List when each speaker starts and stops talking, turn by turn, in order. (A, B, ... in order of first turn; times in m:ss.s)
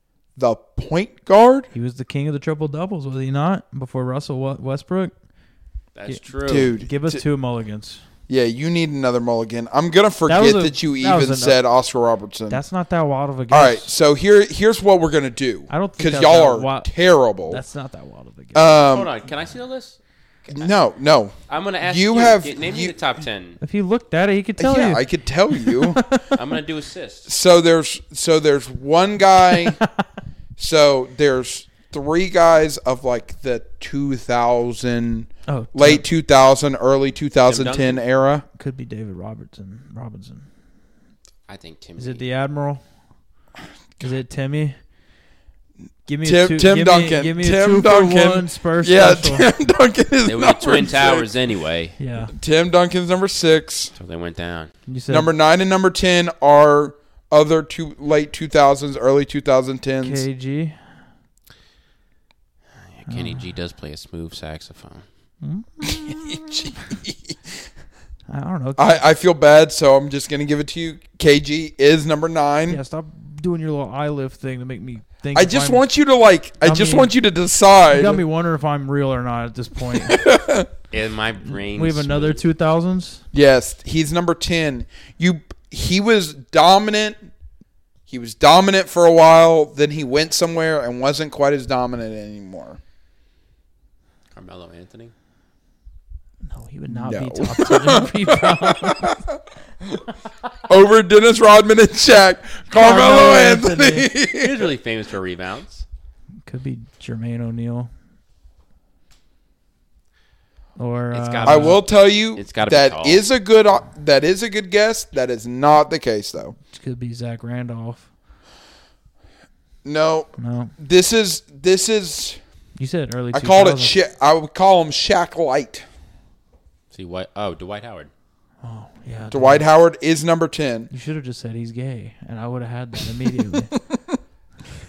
0:00.4-0:01.7 A
0:01.7-0:05.1 B
0:05.9-0:06.7 C
0:06.1-0:08.0 B
0:06.5-0:07.2 A
0:08.3-0:12.6 A
0:10.3-0:11.6 B
0:12.5-0:13.9 B
0:13.5-0:17.6 A
0:15.7-0:16.9 B
0:17.5-0:18.9 B
0:18.5-0:19.1 A
0:18.8-0:20.7 C
0:20.5-0:23.0 A
0:21.5-0:23.6 C
0:23.6-0:26.4 B
0:24.6-0:26.1 A
0:26.3-0:27.3 C
0:27.3-0:29.8 A
0:29.4-0:30.0 B
0:30.6-0:38.4 A
0:35.5-0:36.0 B
0:37.5-0:38.0 C
0:38.6-0:40.5 B
0:41.5-0:42.2 C
0:42.0-0:42.8 B
0:44.0-0:44.8 B
0:46.0-0:49.5 B
0:46.2-0:51.3 A
0:50.2-0:51.9 C
0:52.0-0:52.3 B
0:52.3-0:53.9 A
0:54.0-0:54.7 C
0:54.9-0:55.3 B
0:55.1-1:00.2 A
1:00.0-1:01.0 B
1:03.0-1:05.0 C
1:03.1-1:03.4 B
1:05.4-1:06.9 B
1:05.8-1:07.4 A
1:08.3-1:09.0 B
1:08.8-1:12.8 A
1:12.7-1:15.8 B
1:15.3-1:18.2 A
1:16.6-1:17.1 B
1:17.9-1:20.3 B
1:19.9-1:20.7 A
1:20.9-1:22.4 C
1:21.5-1:23.2 B
1:23.3-1:27.3 A
1:28.1-1:32.8 A
1:34.3-1:35.1 C
1:36.4-1:39.2 B
1:36.9-1:40.0 A
1:40.7-1:44.7 A
1:42.7-1:44.1 B
1:44.3-1:45.8 C
1:46.4-1:47.9 B
1:50.8-1:51.8 B
1:51.1-1:51.8 C
1:51.4-1:56.5 A
1:52.3-1:53.2 C
1:56.7-1:58.1 B
1:59.8-2:02.4 A
2:00.4-2:00.7 B
2:02.8-2:04.0 B
2:03.3-2:05.8 A
2:06.9-2:08.1 C
2:08.6-2:09.6 B
2:09.3-2:10.9 A
2:10.9-2:13.7 B
2:13.8-2:14.2 A